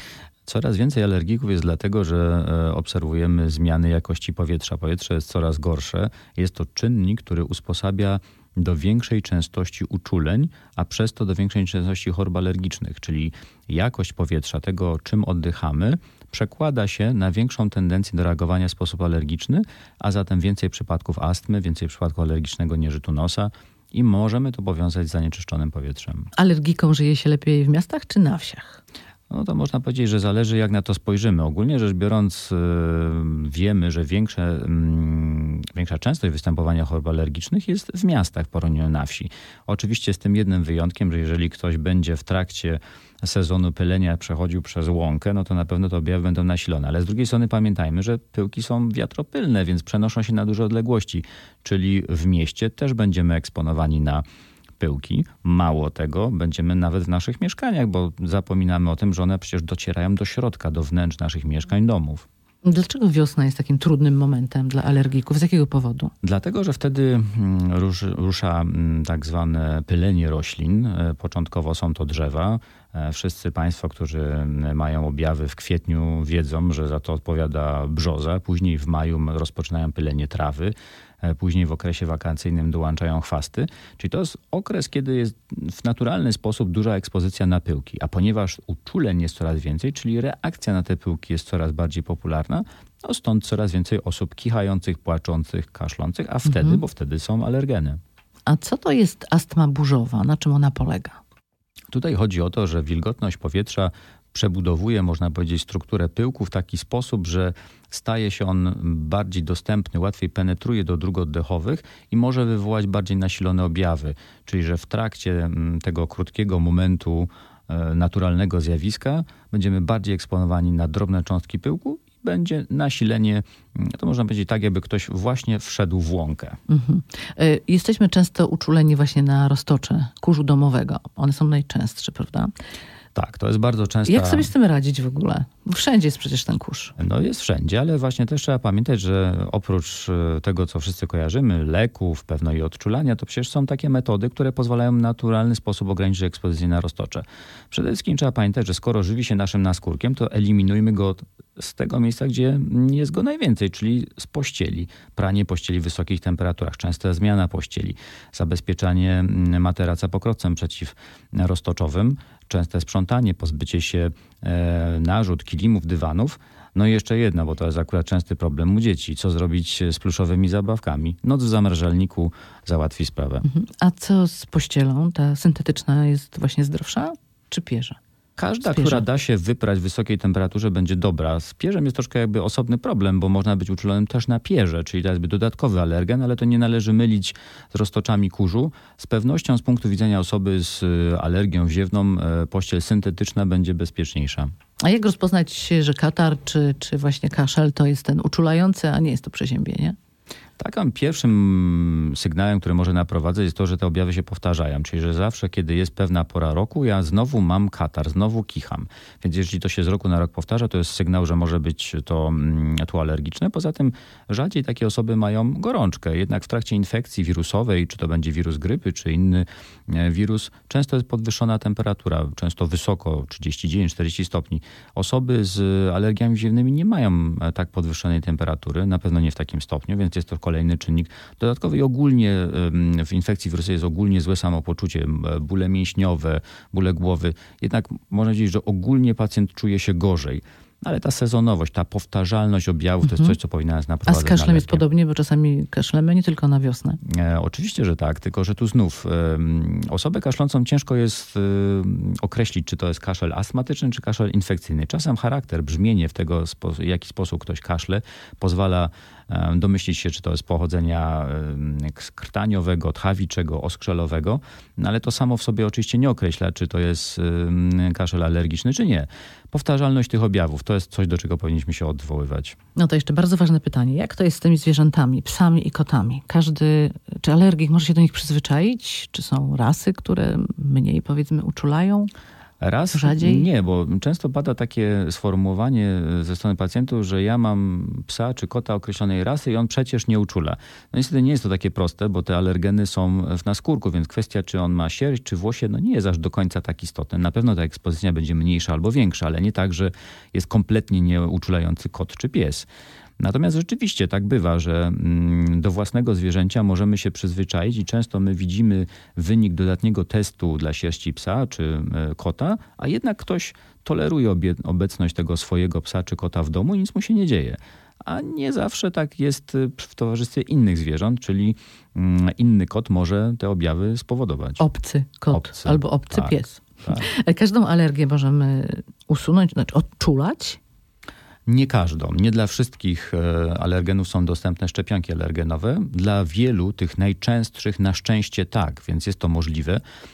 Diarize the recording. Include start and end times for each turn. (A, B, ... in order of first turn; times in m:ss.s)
0:00.5-0:26.3 A
0:26.4-0:28.8 B
0:29.3-0:54.2 A
0:54.8-1:02.3 A
1:02.6-1:06.1 B
1:06.2-1:38.0 A
1:36.4-1:36.8 B
1:38.5-1:41.2 B
1:41.9-2:06.6 A
2:06.7-2:12.5 B
2:13.2-2:14.5 A
2:14.1-2:16.9 B
2:17.0-2:53.4 A
2:53.4-2:58.0 B
2:58.4-3:14.5 A
2:58.7-2:59.0 B
3:14.8-3:20.0 B
3:20.6-4:04.8 A
4:03.0-4:03.4 B
4:04.1-4:07.0 B
4:07.0-4:32.6 A
4:32.8-4:42.1 B
4:42.6-5:02.7 A
4:42.9-4:43.5 B
5:03.2-5:24.6 A
5:24.6-5:30.6 B
5:25.3-5:27.1 A
5:31.5-5:39.8 A